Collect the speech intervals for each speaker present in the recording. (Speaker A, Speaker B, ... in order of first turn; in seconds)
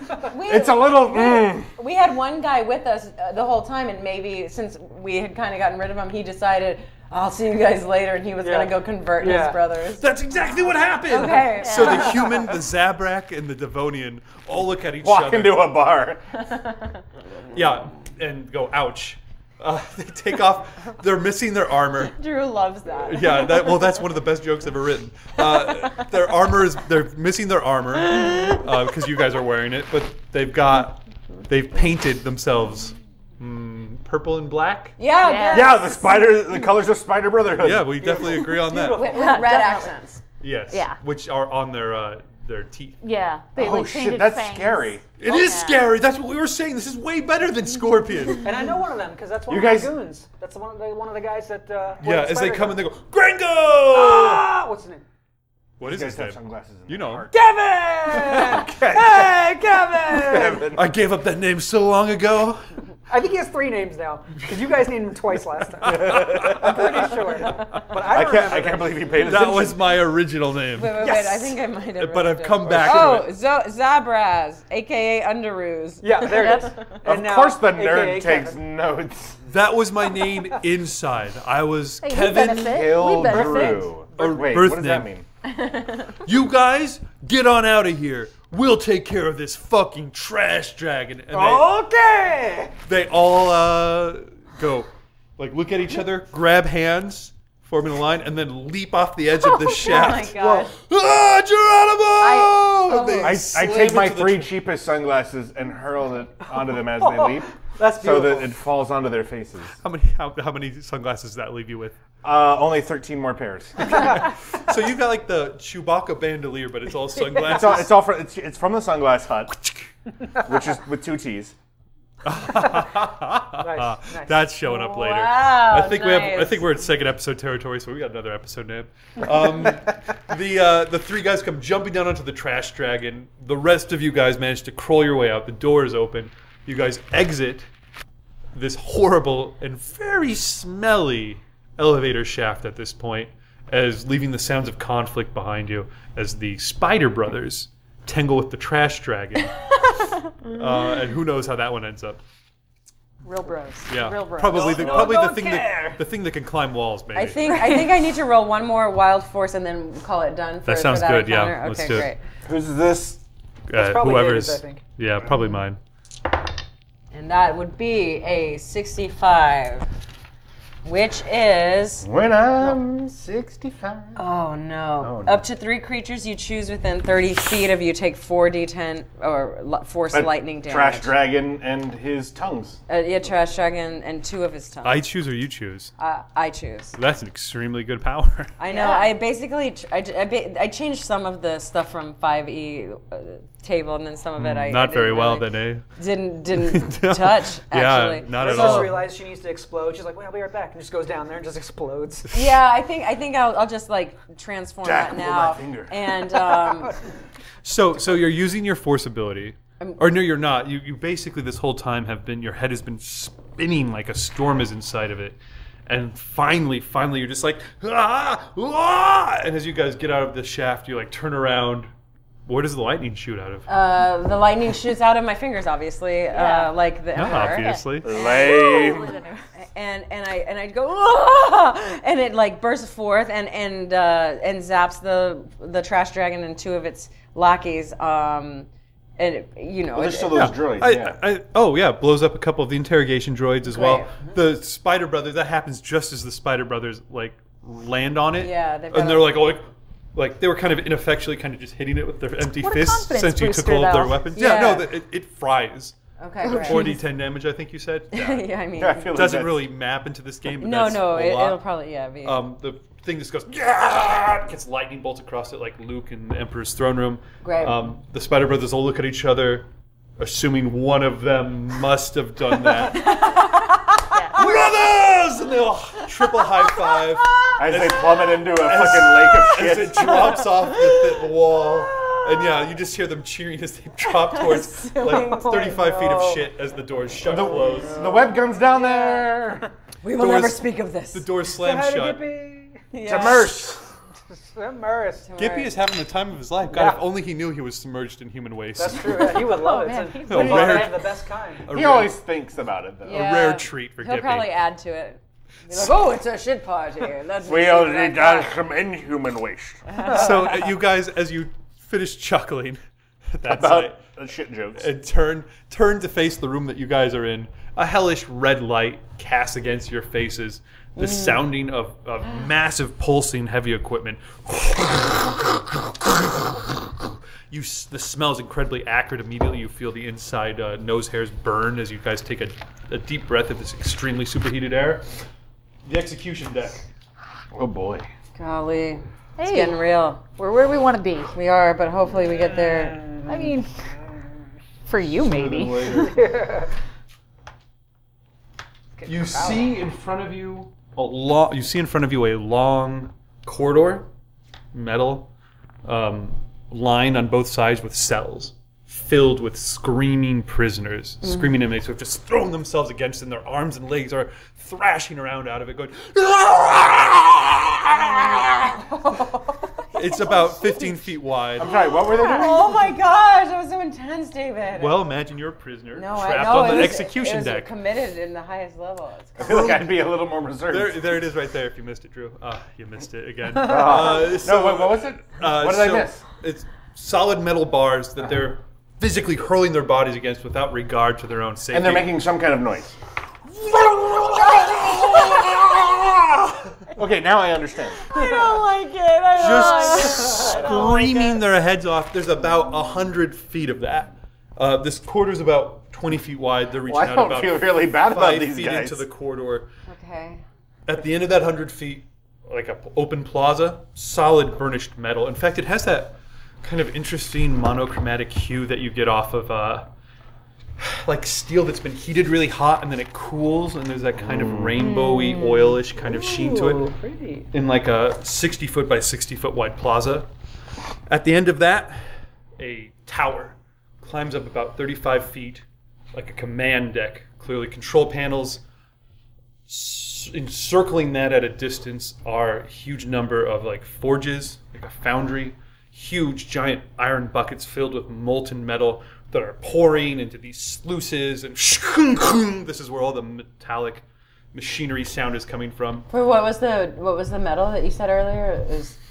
Speaker A: 0.3-10.0, 11.1-12.4, 22.1-23.5, 35.0-36.3, 38.8-40.2, 70.7-76.8, 85.5-86.1, 99.4-100.7, 102.2-103.4, 124.6-126.7, 157.1-162.2, 167.1-169.8, 170.8-172.1, 174.2-181.1, 182.9-185.0, 186.0-186.9, 188.6-198.9, 202.3-206.9, 223.7-240.5, 243.7-244.1, 248.4-249.5, 254.3-254.9, 256.2-257.0, 258.1-259.2, 260.6-262.4, 267.4-267.9, 273.2-273.4, 281.9-282.5, 284.0-285.9, 287.9-289.3, 290.0-291.3, 292.9-293.6, 295.2-295.8, 303.0-308.5, 309.9-310.5, 321.0-321.4, 338.4-340.2, 341.3-343.1, 349.0-349.6, 368.7-370.0, 371.6-375.0, 375.9-379.7, 398.1-401.4, 409.9-410.4, 456.1-458.9
Speaker B: 0.5-1.7, 15.0-16.2, 35.5-38.5, 43.5-45.0, 49.5-49.9, 55.8-59.3, 60.1-60.9, 65.8-67.0, 68.1-69.9, 72.6-73.1, 77.0-79.5, 82.4-85.2, 103.2-109.8, 112.2-114.1, 117.4-119.6, 120.4-121.5, 162.4-163.2, 172.0-174.2, 175.0-175.4, 180.1-182.8, 204.8-205.9, 228.0-229.2, 239.9-241.2, 258.8-259.7, 277.6-280.5, 287.2-289.7, 293.0-293.9, 301.7-303.3, 307.4-309.8, 313.4-314.9, 337.5-338.1, 371.6-372.7, 379.4-381.1, 383.5-386.2, 391.7-392.9, 393.7-396.4, 396.9-398.0, 406.8-409.1, 424.2-424.7
Speaker C: 8.4-9.6, 38.0-39.7, 48.4-52.8, 53.9-55.0, 57.3-60.7, 63.1-69.3, 71.0-71.5, 76.0-78.6, 83.3-84.2, 91.3-92.7, 99.8-100.7, 106.6-108.5, 123.6-124.4, 153.2-156.0, 163.7-164.8, 198.3-202.3, 206.4-206.9, 285.0-286.5, 291.5-292.9, 294.3-295.3, 296.7-297.0, 298.8-301.7, 342.8-343.5, 345.9-346.7, 426.0-427.5
Speaker D: 10.0-15.7, 17.5-22.2, 23.0-35.0, 37.6-39.1, 40.4-43.0, 45.2-48.5, 52.0-54.5, 55.8-57.3, 58.3-59.2, 60.3-62.6, 65.8-67.9, 69.2-71.1, 72.0-73.3, 79.5-83.0, 84.1-85.1, 86.2-91.7, 92.8-104.5, 109.8-112.0, 113.8-117.9, 122.2-137.7, 138.5-149.9, 150.4-152.2, 153.9-157.8, 160.7-162.1, 163.7-165.8, 184.8-185.9, 186.9-188.5, 194.4-195.8, 196.5-199.1, 207.6-221.9, 222.5-223.7, 227.1-228.1, 240.3-258.5, 259.1-261.6, 262.2-269.6, 270.2-273.3, 274.3-288.0, 290.1-292.3, 295.4-299.5, 300.2-302.2, 303.1-304.5, 310.0-312.8, 313.3-314.0, 314.8-335.0, 335.8-336.8, 345.2-346.3, 349.1-354.1, 354.7-355.3, 355.8-368.8, 369.9-371.7, 374.8-377.7, 379.4-379.9, 380.7-392.1, 399.4-409.7, 410.9-419.9, 420.8-426.9, 427.5-430.3, 431.1-432.0, 432.6-438.6, 439.7-456.1
Speaker E: 11.6-12.3, 35.2-35.8, 39.1-39.9, 40.7-41.0, 43.0-45.9, 82.0-83.9, 153.3-154.6, 188.7-189.1, 226.3-226.8, 227.4-229.4, 252.6-254.5, 256.4-257.0, 274.1-274.5, 299.5-300.9, 339.4-341.3, 343.2-343.7, 344.9-346.1, 372.1-372.5, 399.4-400.7, 425.0-425.4